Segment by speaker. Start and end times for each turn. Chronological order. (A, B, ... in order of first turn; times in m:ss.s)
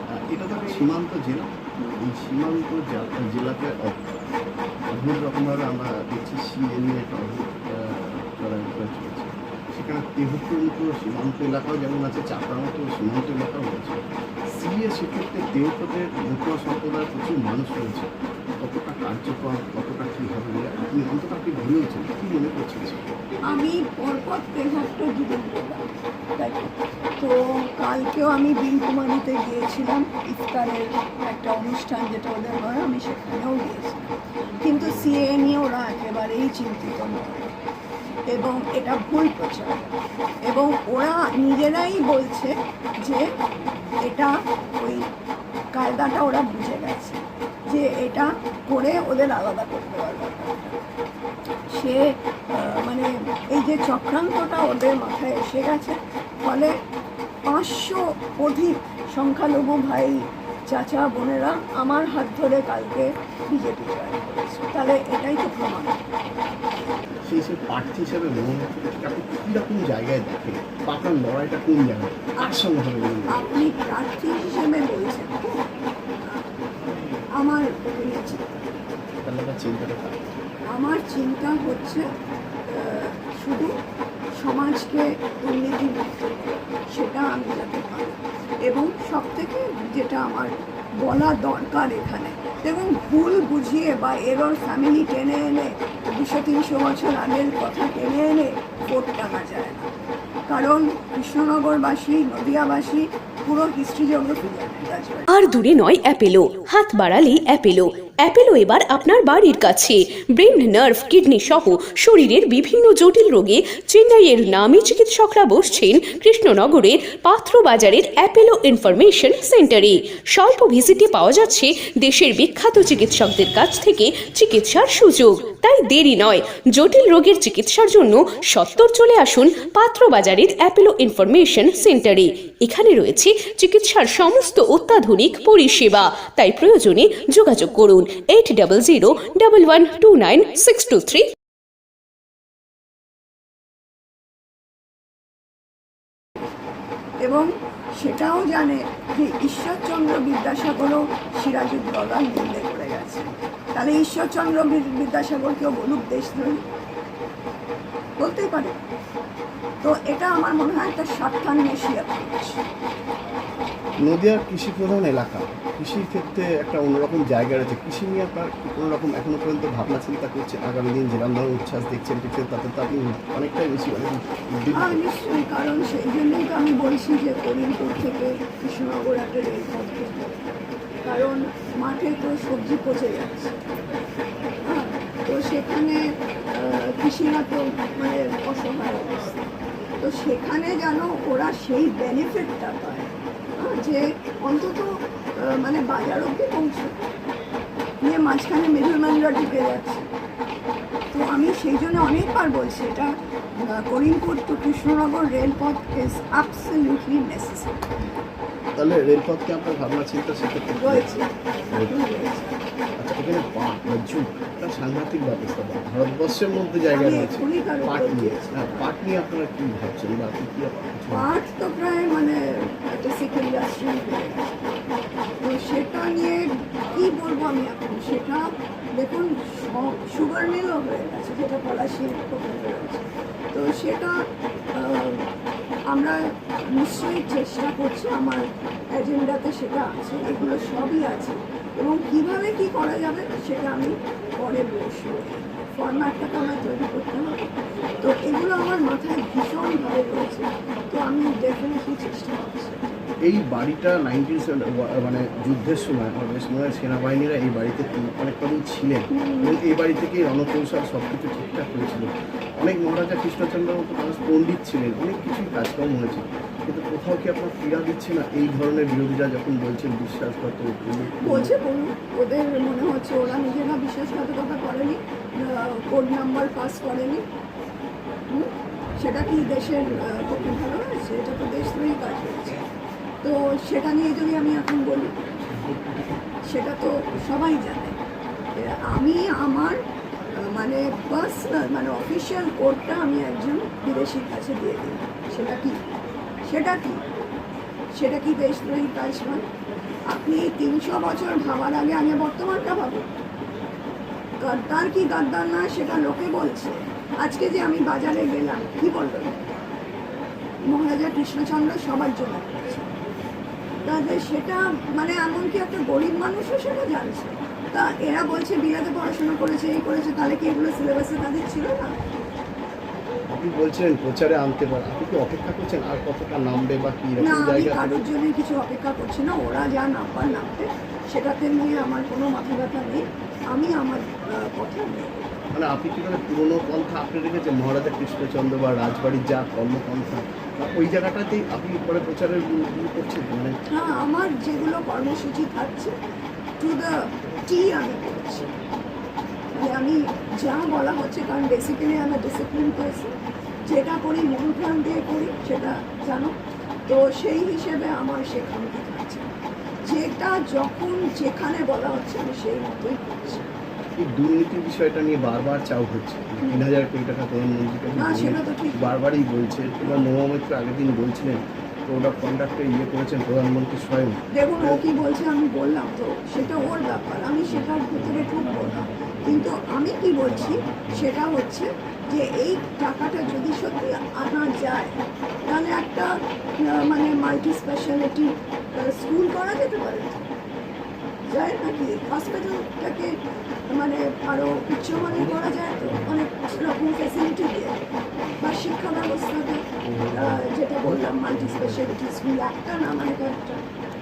0:00.2-0:04.0 A
0:04.9-0:14.0 A
0:14.6-0:18.1 A
0:18.6-0:23.0 A
0:23.5-0:37.5 B
0:38.3-0:39.9 B
0:40.5-0:43.3 B
0:44.0-0:45.1 B
0:45.7-0:50.8 B
0:51.7-0:56.8 B
0:57.5-1:06.0 B
1:07.2-1:13.6 A
1:12.4-1:12.8 B
1:13.3-1:15.6 B
1:17.4-1:18.6 B
1:19.2-1:20.3 A
1:20.7-1:22.1 B
1:22.7-1:23.7 B
1:24.4-1:39.9 B
1:40.5-1:45.3 B
1:45.3-2:21.3 C
2:27.2-2:27.5 B
2:28.0-2:36.7 B
2:38.2-2:38.8 B
2:39.8-2:42.6 B
2:44.0-2:55.0 A
2:54.7-3:00.4 B
3:01.0-3:03.5 B
3:04.7-3:06.0 B
3:06.5-3:09.5 B
3:10.0-3:17.0 B
3:18.0-3:20.1 B
3:21.1-3:23.1 B
3:23.6-3:28.1 B
3:28.7-3:31.1 A
3:30.7-3:32.6 B
3:33.0-3:41.3 A
3:36.9-3:38.9 B
3:41.1-3:44.8 B
3:45.4-3:48.4 B
3:49.0-3:54.2 B
3:54.7-3:55.3 B
3:55.9-3:56.2 B
3:56.7-4:13.1 B
4:13.2-4:31.5 A
4:19.1-4:19.6 B
4:31.2-4:37.2 B
4:38.3-4:42.6 B
4:39.8-4:40.6 A
4:43.2-4:45.2 B
4:46.5-4:48.0 B
4:48.6-4:49.8 B
4:50.4-4:55.8 B
4:56.5-4:57.0 B
4:58.0-4:59.4 B
5:00.1-5:03.1 B
5:04.4-5:09.5 B
5:10.7-5:12.9 B
5:13.8-5:22.0 B
5:23.3-5:28.1 A
5:27.2-5:35.4 B
5:35.5-5:43.6 A
5:43.7-5:45.9 B
5:46.6-5:48.5 B
5:49.6-5:53.1 B
5:53.7-5:56.3 B
5:56.9-5:59.3 B
5:59.8-6:03.5 B
6:04.0-6:14.9 A
6:08.0-6:09.0 B
6:14.3-6:25.0 B
6:25.5-6:26.1 B
6:26.6-6:30.3 B
6:31.3-6:33.1 B
6:33.7-6:37.8 B
6:35.0-6:36.2 A
6:38.4-6:43.6 B
6:39.8-6:41.9 A